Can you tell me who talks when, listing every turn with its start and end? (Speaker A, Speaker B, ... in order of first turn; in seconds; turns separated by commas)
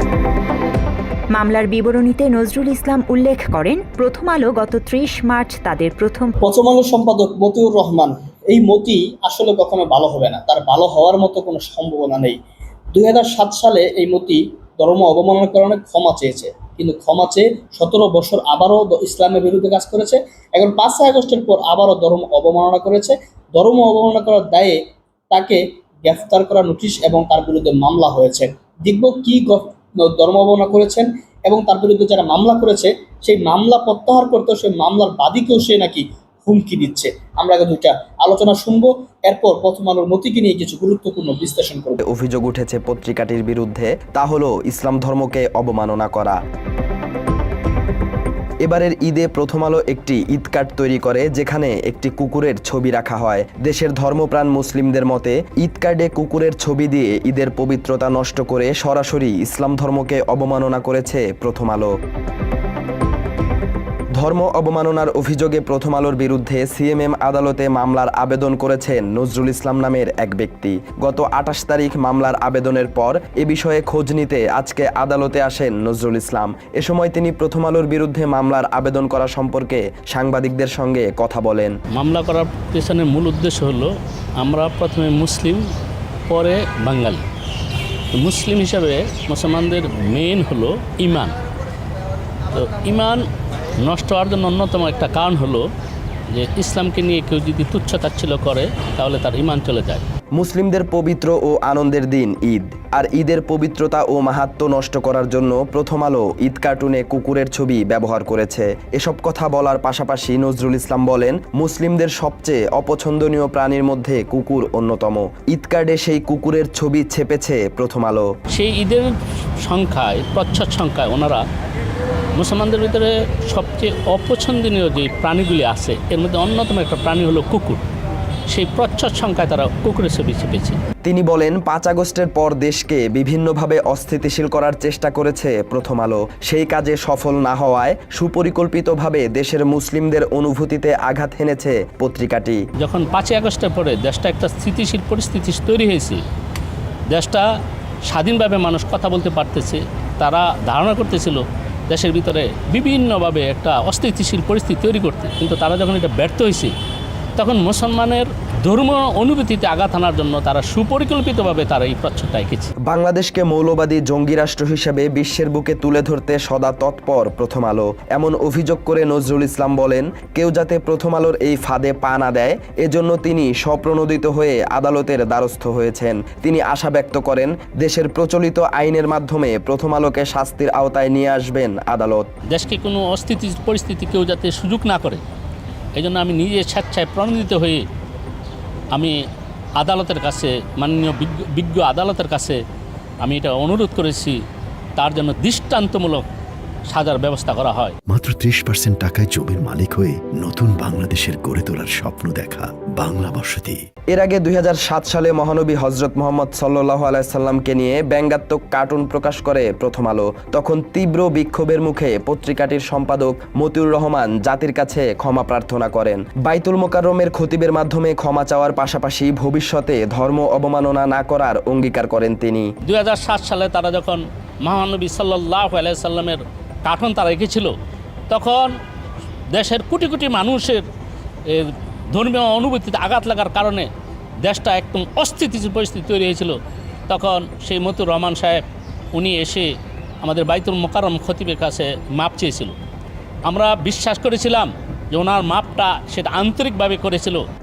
Speaker A: 1.4-6.4, Speaker B: 6.4-12.4, Speaker B: 12.9-24.8, Speaker B: 25.3-42.0, Speaker C: 42.0-46.4, Speaker C: 48.6-61.9, Speaker C: 64.2-81.7, Speaker D: 82.0-85.6, Speaker D: 86.3-87.2, Speaker D: 88.1-91.3, Speaker D: 92.5-93.2, Speaker D: 93.8-95.7, Speaker D: 96.3-100.0, Speaker C: 100.4-118.3, Speaker D: 118.5-119.1, Speaker D: 119.6-121.4, Speaker D: 122.4-127.8, Speaker D: 128.5-130.8, Speaker C: 131.0-142.6, Speaker D: 142.8-146.2, Speaker D: 147.1-147.4, Speaker D: 148.1-156.7, Speaker D: 157.4-162.7, Speaker C: 162.9-182.3, Speaker D: 182.5-185.2, Speaker D: 186.0-187.8, Speaker D: 189.8-192.6, Speaker D: 193.2-194.4, Speaker D: 195.0-196.2, Speaker D: 196.9-197.9, Speaker E: 198.1-203.8, Speaker C: 204.1-222.7, Speaker D: 222.9-227.7, Speaker D: 228.3-228.7, Speaker D: 229.5-230.8, Speaker D: 231.5-233.9, Speaker D: 234.4-236.6, Speaker D: 237.1-238.6, Speaker D: 239.1-239.7, Speaker D: 240.2-242.8, Speaker D: 243.5-247.4